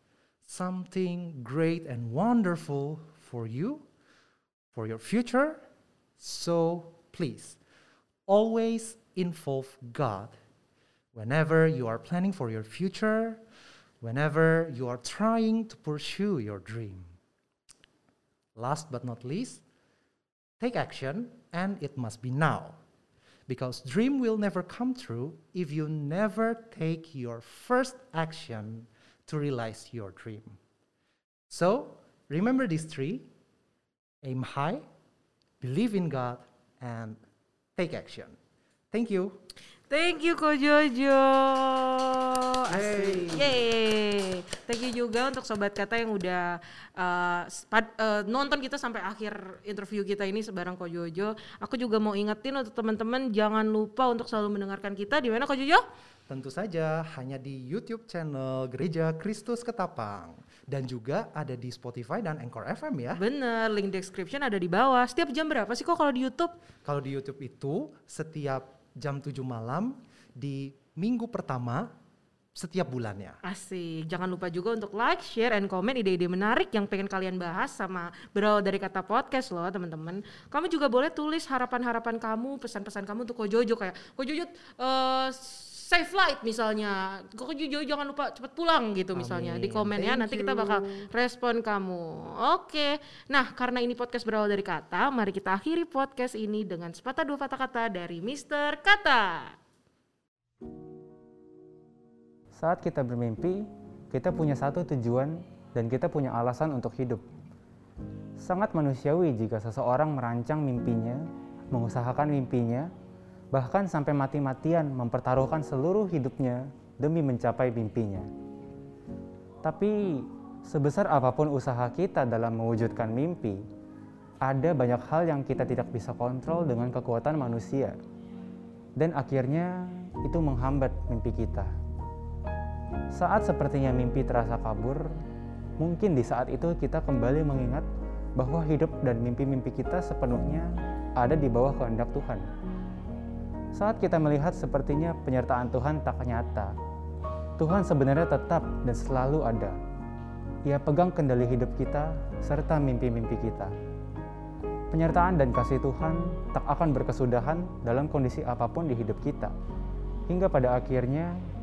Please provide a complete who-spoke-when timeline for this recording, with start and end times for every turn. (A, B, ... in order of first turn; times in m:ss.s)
0:00.4-0:03.8 A
0:04.7-0:05.6 A
0:06.2-0:07.6 A
0:08.3-0:10.4 A
0:11.1-0:13.4 A
0:14.0-0:17.2 A
0:18.6-0:19.6 A
0:20.6-0:22.8 A
0:23.5-0:30.6 A
0:31.5-0:33.3 A
0:34.2-0:34.8 A
0:35.6-0:37.2 A
0:37.8-0:38.4 A
0:38.9-0:39.4 A
0:39.9-0:55.8 B
0:42.7-0:43.6 A
0:56.3-1:03.2 A
1:03.1-1:06.5 B
1:06.8-1:11.9 A
1:12.5-1:13.4 A
1:13.4-1:39.6 B
1:29.1-1:31.1 A
1:42.5-1:47.2 C
1:48.4-1:52.9 C
1:53.5-1:58.3 C
1:59.6-2:03.6 C
2:04.4-2:08.0 C
2:09.0-2:11.7 C
2:13.1-2:15.2 C
2:15.8-2:17.8 C
2:18.4-2:22.5 C
2:23.7-2:26.7 C
2:27.6-2:29.8 C
2:30.6-2:33.7 C
2:34.9-2:39.5 C
2:40.3-2:41.3 C